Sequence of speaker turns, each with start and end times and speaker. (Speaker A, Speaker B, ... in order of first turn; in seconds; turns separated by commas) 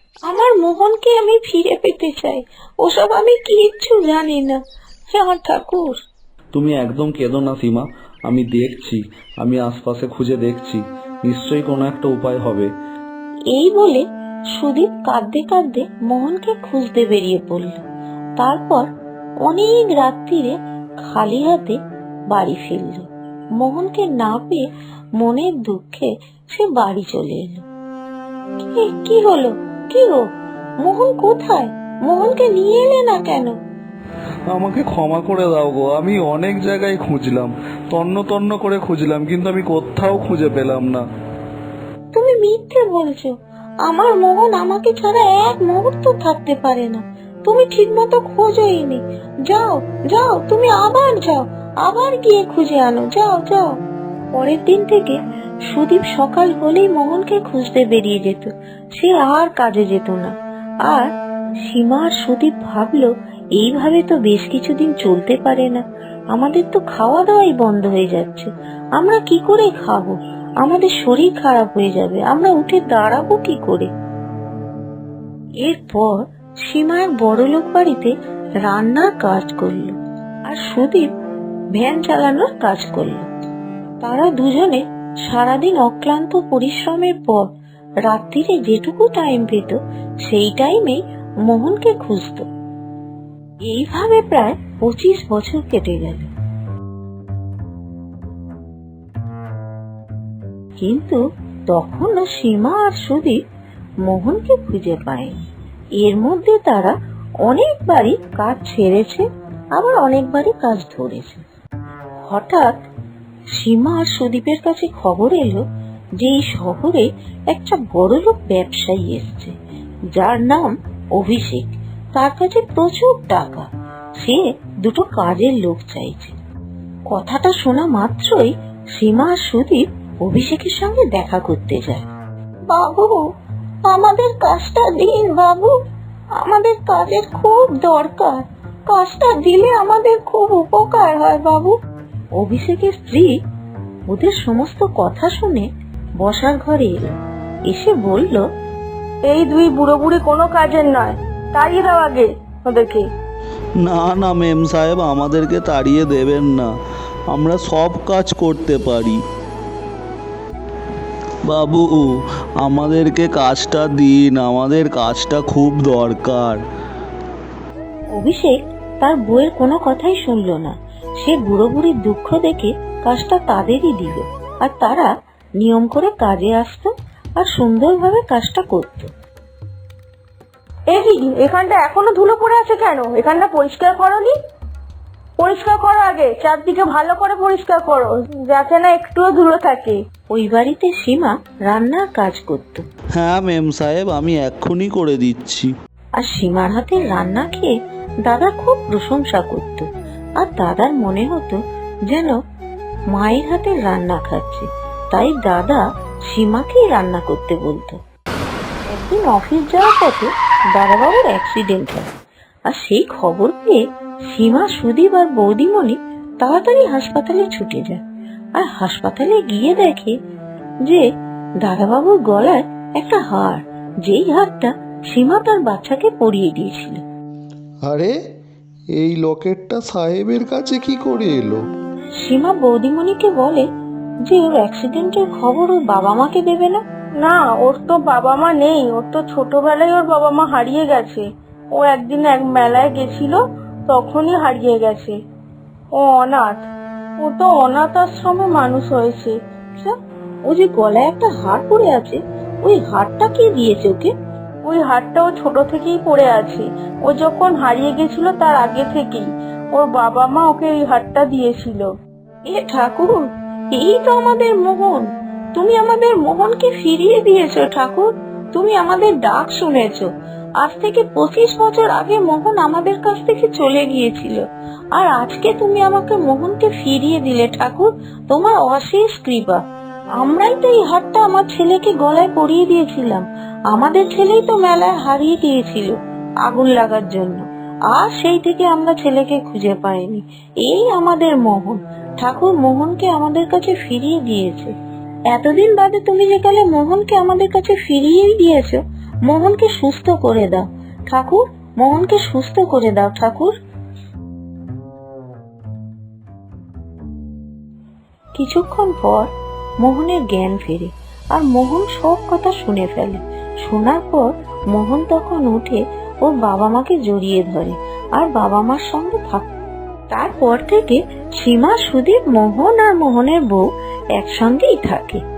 Speaker A: 0.2-6.0, Speaker B: 6.5-12.7, Speaker C: 6.6-7.6, Speaker A: 13.5-14.0, Speaker A: 14.6-17.8, Speaker A: 18.4-18.9, Speaker A: 19.4-21.8, Speaker A: 22.3-23.1, Speaker A: 23.6-24.7, Speaker A: 25.2-27.6, Speaker A: 28.7-30.3, Speaker A: 30.8-33.5, Speaker B: 34.5-40.7, Speaker C: 34.7-37.5, Speaker C: 38.1-41.0, Speaker A: 42.1-43.3, Speaker A: 43.9-53.7, Speaker A: 54.3-60.3, Speaker A: 61.7-65.8, Speaker A: 66.3-73.9, Speaker A: 75.6-78.1, Speaker A: 78.7-80.0, Speaker A: 80.5-81.1, Speaker A: 81.8-83.3, Speaker A: 84.0-87.5, Speaker A: 88.1-92.5, Speaker A: 93.7-96.3, Speaker A: 100.8-103.4, Speaker A: 104.1-105.4, Speaker A: 106.0-106.9, Speaker A: 107.5-109.2, Speaker A: 109.8-111.4, Speaker A: 112.2-112.7, Speaker A: 113.5-115.6, Speaker A: 116.2-119.5, Speaker A: 120.1-123.7, Speaker A: 124.2-126.4, Speaker A: 127.1-132.1, Speaker A: 132.7-133.2, Speaker A: 133.9-135.8, Speaker A: 136.4-141.8, Speaker A: 142.4-143.3, Speaker A: 144.1-145.7, Speaker A: 146.2-147.1, Speaker A: 147.7-148.5, Speaker D: 149.3-153.1, Speaker C: 153.8-156.7, Speaker C: 157.3-159.2, Speaker C: 161.5-162.1, Speaker C: 162.6-166.6, Speaker A: 168.1-179.1, Speaker D: 180.9-184.3, Speaker D: 185.4-190.0, Speaker A: 190.3-192.8, Speaker C: 193.2-195.7, Speaker A: 196.2-197.7, Speaker A: 198.2-199.9, Speaker A: 200.4-202.4, Speaker A: 203.1-208.0, Speaker A: 208.9-212.1, Speaker A: 212.7-218.0, Speaker A: 218.6-220.1, Speaker A: 221.6-227.0, Speaker E: 227.8-228.2, Speaker E: 228.9-231.6, Speaker A: 232.2-233.7, Speaker A: 234.3-236.8, Speaker D: 237.2-245.2, Speaker D: 246.0-246.7, Speaker D: 247.2-249.4, Speaker A: 249.8-254.1, Speaker D: 254.7-261.9, Speaker A: 262.5-270.1, Speaker A: 270.6-279.6, Speaker A: 280.2-294.7, Speaker A: 295.3-303.6, Speaker A: 308.4-319.5, Speaker A: 320.1-325.2